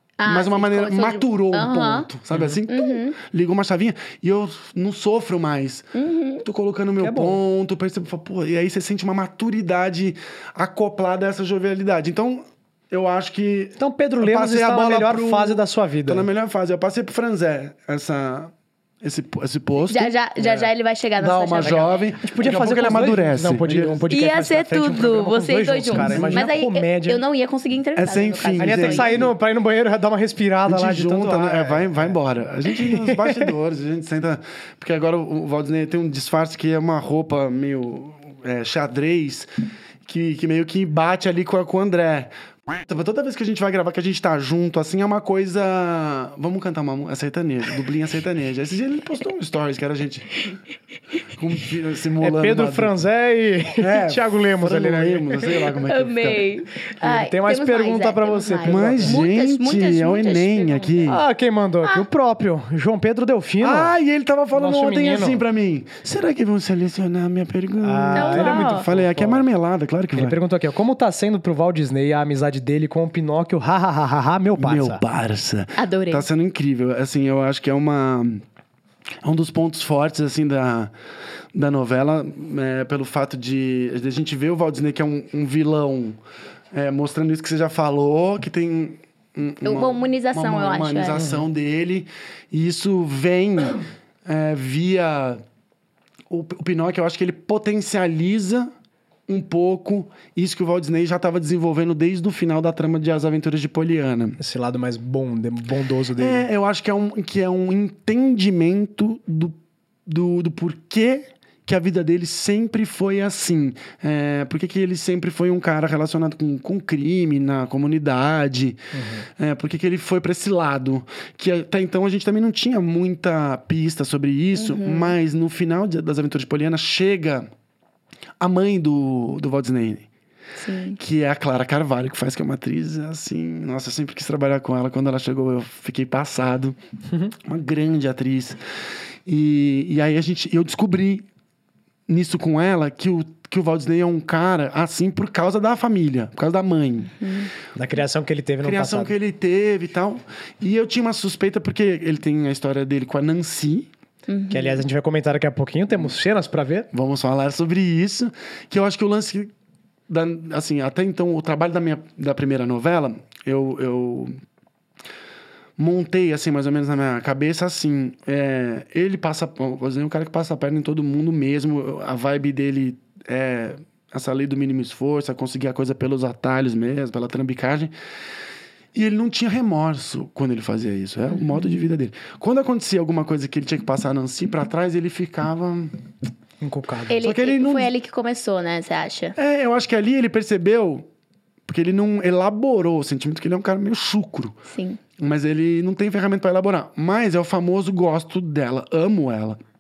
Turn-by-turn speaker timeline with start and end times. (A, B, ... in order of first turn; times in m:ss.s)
0:00.2-0:02.1 A
0:00.3-0:05.9 B
0:02.3-0:02.6 C
0:02.7-0:03.2 A
0:06.0-0:06.4 A
0:06.4-0:24.1 B
0:07.0-0:07.4 C
0:13.8-0:16.3 C
0:19.9-0:22.0 A
0:21.6-0:27.2 C
0:24.1-0:29.3 A
0:25.9-0:26.5 B
0:28.0-0:29.3 B
0:28.6-0:33.5 C
0:30.7-0:39.5 B
0:40.0-0:50.5 B
0:51.3-0:52.9 B
0:52.2-0:55.7 C
0:53.8-0:56.5 B
0:55.8-1:01.2 A
0:57.0-0:59.2 C
0:58.7-1:01.2 B
1:01.1-1:04.0 C
1:03.6-1:10.4 B
1:04.5-1:05.4 C
1:07.8-1:09.5 C
1:08.2-1:08.9 A
1:10.1-1:15.0 C
1:14.6-1:18.4 B
1:15.8-1:16.3 A
1:19.2-1:20.9 B
1:21.5-1:26.2 B
1:26.7-1:35.4 B
1:29.6-1:31.2 A
1:31.2-1:31.5 C
1:36.3-1:38.7 B
1:39.3-1:44.4 B
1:44.4-1:46.5 C
1:46.2-2:07.5 B
1:58.9-1:59.3 C
2:04.6-2:05.1 A
2:08.4-2:10.1 B
2:10.6-2:11.0 A
2:11.0-2:16.8 B
2:17.4-2:18.6 B
2:19.3-2:21.3 B
2:22.1-2:27.2 B
2:27.2-2:27.5 A
2:27.8-2:29.1 C
2:28.6-2:33.9 B
2:34.3-2:34.8 A
2:34.5-2:36.9 C
2:36.9-2:39.5 B
2:40.1-2:44.4 B
2:45.8-2:57.9 B
2:58.9-3:06.0 B
3:06.6-3:07.2 C
3:07.1-3:09.4 A
3:07.2-3:07.9 B
3:09.4-3:11.1 B
3:11.7-3:14.6 B
3:14.7-3:15.0 A
3:15.2-3:19.6 B